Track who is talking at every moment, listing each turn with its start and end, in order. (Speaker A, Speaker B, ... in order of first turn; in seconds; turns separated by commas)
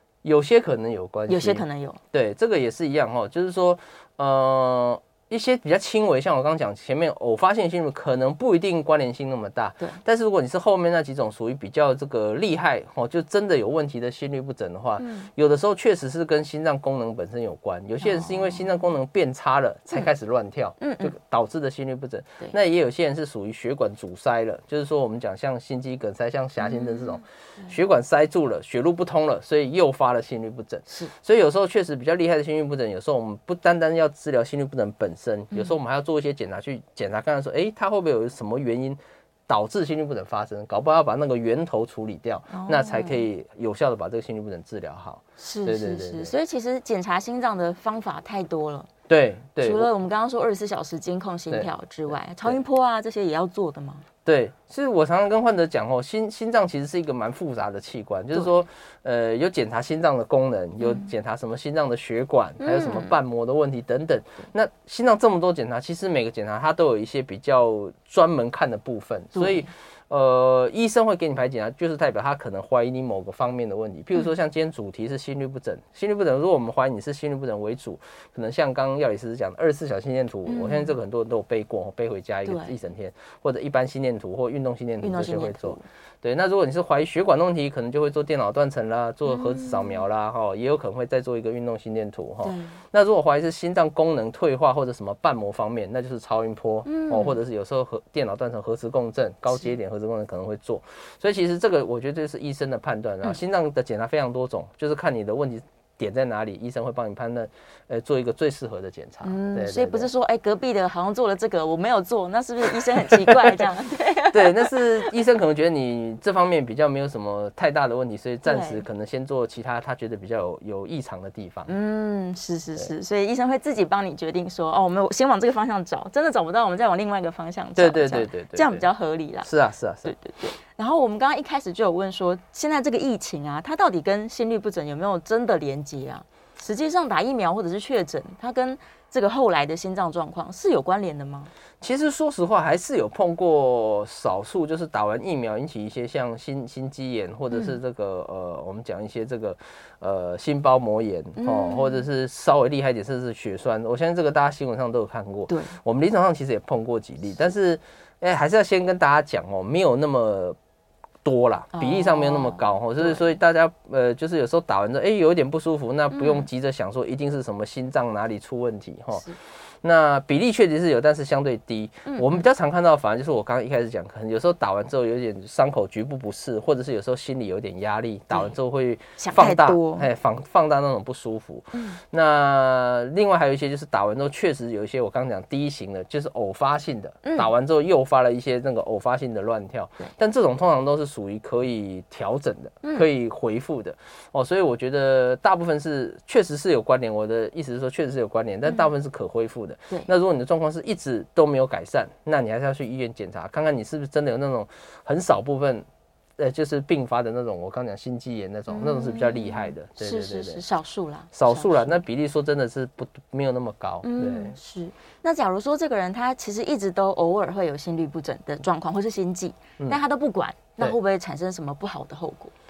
Speaker A: 0.2-46.3, Speaker B: 1.3-2.0, Speaker B: 15.0-15.3, Speaker B: 18.0-18.6, Speaker B: 20.8-21.1, Speaker B: 26.6-27.7, Speaker B: 42.5-43.2, Speaker B: 45.4-48.9, Speaker A: 49.1-49.9, Speaker B: 49.6-54.0, Speaker A: 51.5-52.6, Speaker A: 54.2-110.1, Speaker B: 60.8-61.1, Speaker B: 62.6-63.1, Speaker B: 69.3-69.7, Speaker B: 80.5-80.9, Speaker B: 82.4-82.7, Speaker B: 85.0-85.8, Speaker B: 89.2-90.0, Speaker B: 92.4-92.8, Speaker B: 96.8-97.4, Speaker B: 109.2-115.1, Speaker A: 113.1-113.6, Speaker A: 114.3-121.7, Speaker B: 118.4-118.8, Speaker B: 121.7-129.5, Speaker A: 127.8-128.9, Speaker A: 129.4-130.2, Speaker B: 130.0-141.5, Speaker A: 141.8-160.6, Speaker B: 147.5-147.8, Speaker B: 151.4-152.0, Speaker B: 155.5-155.8, Speaker A: 161.2-205.9, Speaker B: 161.7-163.3, Speaker B: 166.1-166.5, Speaker B: 172.1-172.4, Speaker B: 179.2-180.1, Speaker B: 181.7-182.0, Speaker B: 187.2-187.5, Speaker A: 206.4-210.6, Speaker B: 208.7-212.0, Speaker A: 211.3-214.6, Speaker B: 214.0-222.5